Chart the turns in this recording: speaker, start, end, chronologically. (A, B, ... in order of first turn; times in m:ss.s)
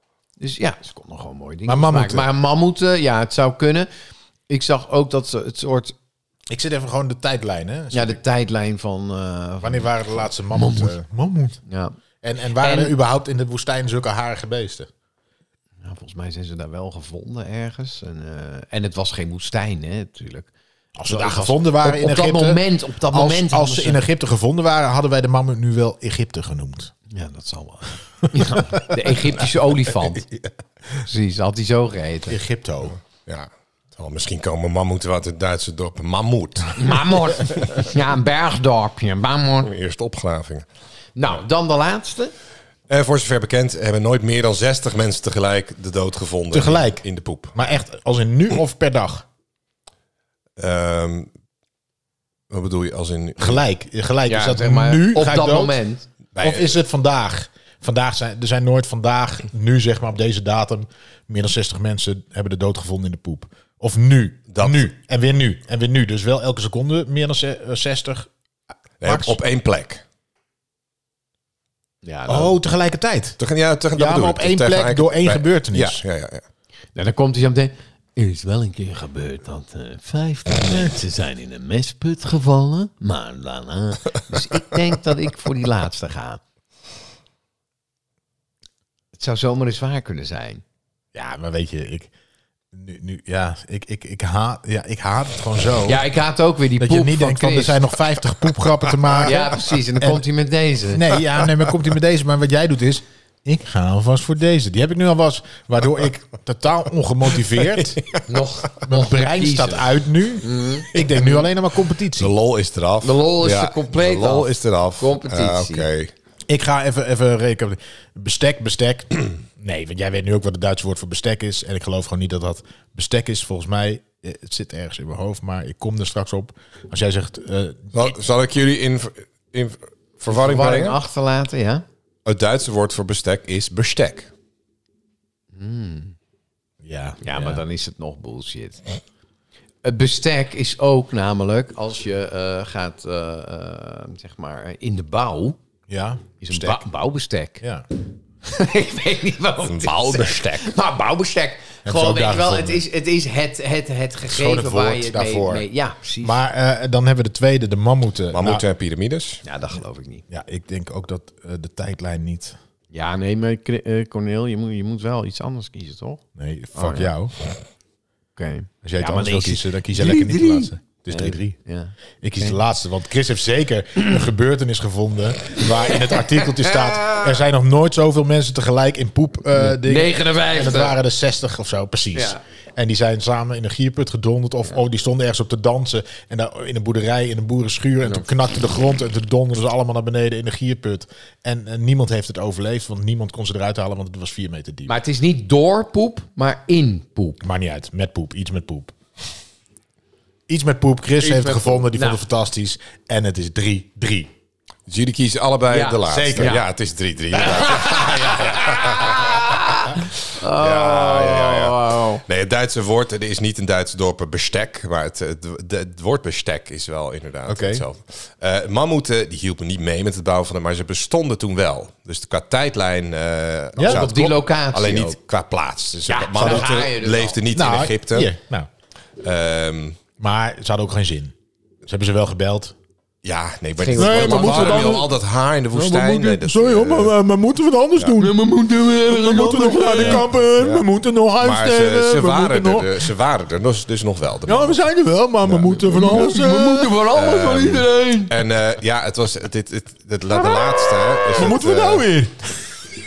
0:00.4-0:03.9 A
0:01.6-0:02.3 B
0:04.5-0:05.9 A
0:06.5-0:08.2 B
0:07.9-0:10.9 A
0:09.6-0:11.6 B
0:11.6-0:12.0 A
0:12.2-0:14.9 B
0:12.6-0:12.9 A
0:15.8-0:20.5 A
0:21.0-0:26.9 B
0:21.0-0:24.0 A
0:27.1-0:30.3 A
0:28.2-0:28.8 B
0:31.0-0:32.4 A
0:32.3-0:33.0 B
0:32.9-0:36.8 C
0:36.8-0:39.7 A
0:37.4-0:37.8 C
0:39.6-0:40.6 C
0:41.2-0:42.3 A
0:42.9-0:47.6 C
0:46.5-0:49.2 B
0:50.6-0:51.3 C
0:52.5-0:53.6 C
0:53.4-0:55.8 B
0:54.2-0:56.1 A
0:56.3-0:56.7 C
0:56.4-1:08.3 B
1:04.5-1:04.9 C
1:09.0-1:10.0 C
1:09.0-1:09.4 B
1:12.0-1:12.6 A
1:12.3-1:13.4 B
1:13.4-1:16.4 C
1:13.9-1:16.0 B
1:16.9-1:26.4 A
1:29.1-1:30.6 A
1:31.1-1:32.1 B
1:32.7-1:36.0 B
1:35.8-1:37.8 A
1:36.8-1:40.2 B
1:39.2-1:41.2 A
1:40.9-1:48.1 B
1:47.7-1:48.4 C
1:48.3-1:51.4 A
1:48.8-1:52.3 B
1:52.1-1:56.1 C
1:53.0-1:55.8 A
1:56.5-2:08.0 B
2:07.9-2:11.0 C
2:10.3-2:11.8 A
2:12.2-2:14.3 C
2:15.5-2:16.1 A
2:16.8-2:17.6 B
2:17.2-2:18.8 A
2:19.8-2:25.6 A
2:25.9-2:26.8 B
2:26.4-2:27.6 A
2:28.4-2:36.4 A
2:29.6-2:30.7 C
2:31.8-2:32.8 B
2:34.3-2:35.7 B
2:36.2-2:38.6 B
2:38.3-2:39.4 C
2:39.4-2:40.2 A
2:40.3-2:42.6 B
2:42.9-2:46.2 A
2:46.4-2:47.3 B
2:46.7-2:47.1 A
2:48.4-2:52.6 A
2:48.8-2:51.6 B
2:52.2-3:14.9 B
2:55.6-2:57.4 A
2:59.5-3:01.0 A
3:02.1-3:02.4 A
3:14.8-3:17.4 A
3:17.4-3:18.9 B
3:20.5-3:24.3 B
3:21.2-3:22.2 A
3:24.9-3:29.3 C
3:25.7-3:26.6 A
3:26.0-3:26.6 B
3:27.4-3:28.7 B
3:27.4-3:32.2 A
3:30.6-3:48.3 C
3:37.5-3:37.8 B
3:43.8-3:44.1 B
3:43.8-3:45.2 A
3:46.1-3:47.4 A
3:47.5-3:48.7 B
3:49.2-3:50.0 C
3:50.2-3:51.3 B
3:51.8-3:52.7 B
3:53.2-3:57.2 C
3:53.8-3:55.0 A
3:54.0-3:55.1 B
3:55.7-4:03.1 B
3:58.2-4:00.3 A
3:59.9-4:04.8 C
4:04.4-4:07.0 B
4:05.4-4:06.2 C
4:05.9-4:08.4 A
4:07.1-4:12.1 C
4:07.6-4:07.8 B
4:11.3-4:12.7 B